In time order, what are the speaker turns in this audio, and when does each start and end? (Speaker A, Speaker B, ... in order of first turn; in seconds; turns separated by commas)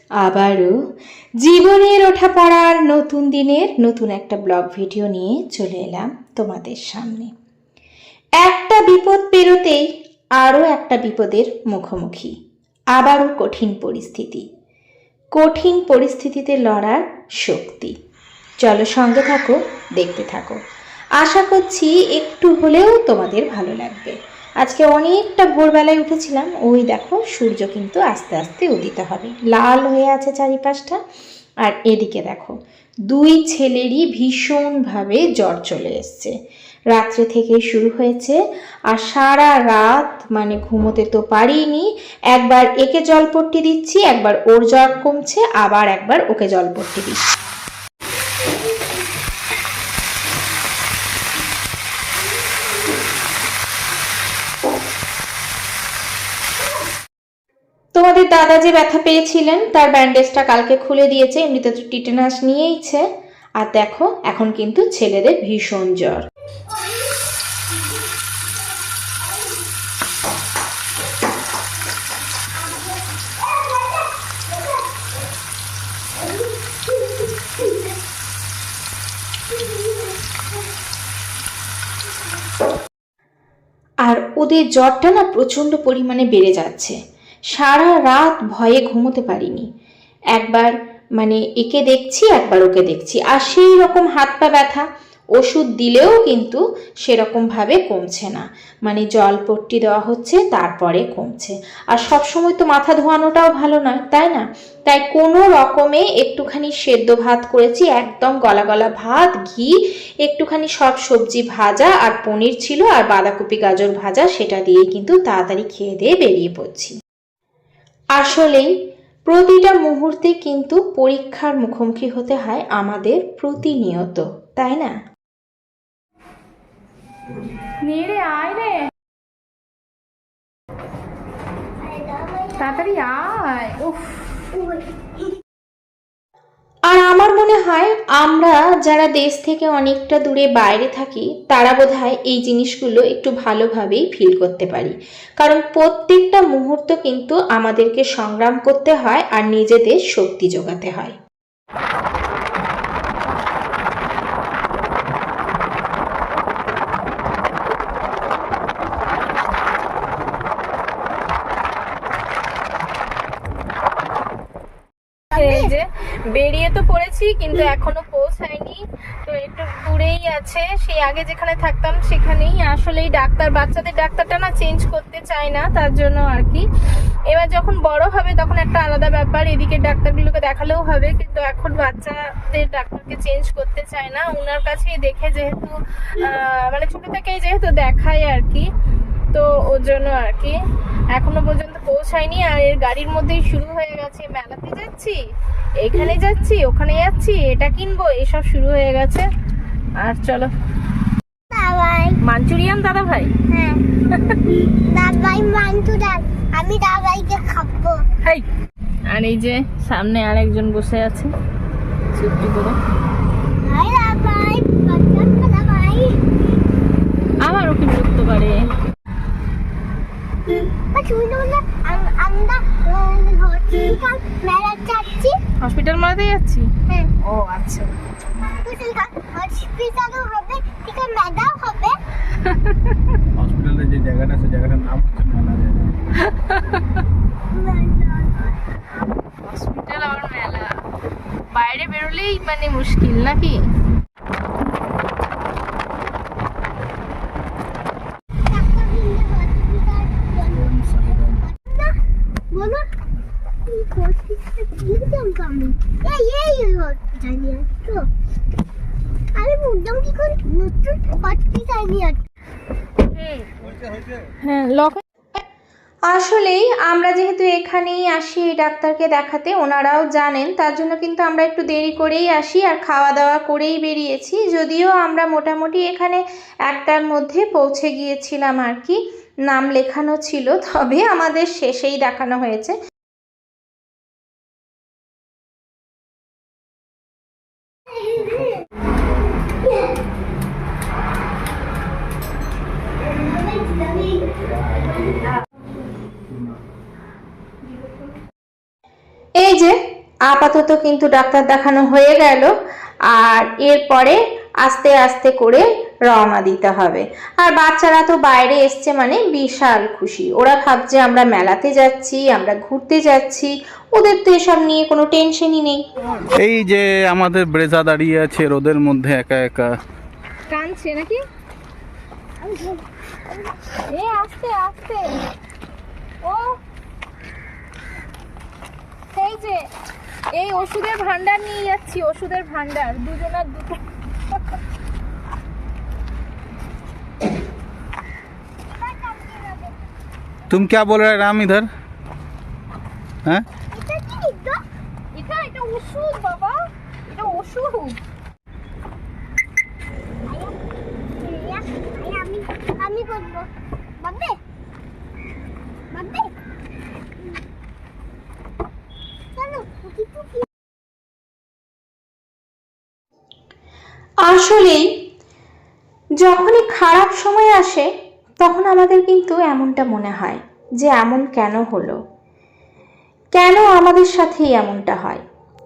Speaker A: 0.2-0.7, Speaker A: 1.4-7.3, Speaker A: 8.4-9.8, Speaker A: 10.4-12.3, Speaker A: 12.9-14.5, Speaker A: 15.3-17.9, Speaker A: 18.6-20.6, Speaker A: 21.2-31.0, Speaker A: 31.6-32.5, Speaker A: 33.1-36.3, Speaker A: 36.9-47.3, Speaker A: 58.0-63.1, Speaker A: 63.6-66.2, Speaker B: 73.5-73.9, Speaker A: 84.0-87.0, Speaker A: 87.5-89.7, Speaker A: 90.3-94.8, Speaker A: 95.4-117.0, Speaker A: 118.2-118.7, Speaker A: 119.3-124.9, Speaker C: 127.8-128.9, Speaker B: 131.8-133.0, Speaker C: 132.6-134.3, Speaker B: 134.5-134.9, Speaker A: 136.9-151.2, Speaker C: 165.3-176.7, Speaker B: 165.3-165.7, Speaker C: 177.3-188.7, Speaker C: 189.3-190.6, Speaker C: 191.1-195.2, Speaker C: 195.8-199.3, Speaker C: 200.0-200.5, Speaker B: 201.5-202.2, Speaker C: 202.2-203.3, Speaker B: 203.5-203.8, Speaker C: 204.1-204.4, Speaker B: 204.9-208.1, Speaker C: 209.1-211.3, Speaker C: 212.1-212.8, Speaker B: 213.6-216.2, Speaker C: 217.4-218.6, Speaker B: 220.9-225.4, Speaker C: 225.6-226.7, Speaker C: 227.2-227.9, Speaker B: 228.4-232.0, Speaker C: 232.4-232.9, Speaker D: 233.4-235.9, Speaker C: 236.5-236.8, Speaker B: 237.5-238.7, Speaker C: 239.4-240.8, Speaker C: 241.5-243.6, Speaker B: 248.5-252.0, Speaker D: 250.7-251.2, Speaker B: 252.5-252.9, Speaker B: 253.7-258.1, Speaker B: 259.4-262.2, Speaker C: 263.2-263.5, Speaker C: 264.4-265.0, Speaker A: 266.1-282.8, Speaker B: 288.0-288.4, Speaker B: 293.1-294.5, Speaker A: 299.4-299.8, Speaker A: 300.3-302.5, Speaker A: 303.1-315.8, Speaker D: 316.4-319.8, Speaker C: 320.5-321.2, Speaker B: 322.5-322.8, Speaker C: 323.9-325.2, Speaker C: 326.2-326.5, Speaker C: 329.1-329.7, Speaker C: 330.3-333.8, Speaker B: 338.7-339.8, Speaker D: 340.5-341.7, Speaker B: 343.7-344.6, Speaker C: 345.1-348.0, Speaker B: 350.3-350.6, Speaker B: 351.2-354.4, Speaker B: 355.9-356.3, Speaker B: 359.4-360.5, Speaker A: 364.3-364.9, Speaker A: 366.2-367.9, Speaker A: 368.4-372.0, Speaker A: 373.4-375.2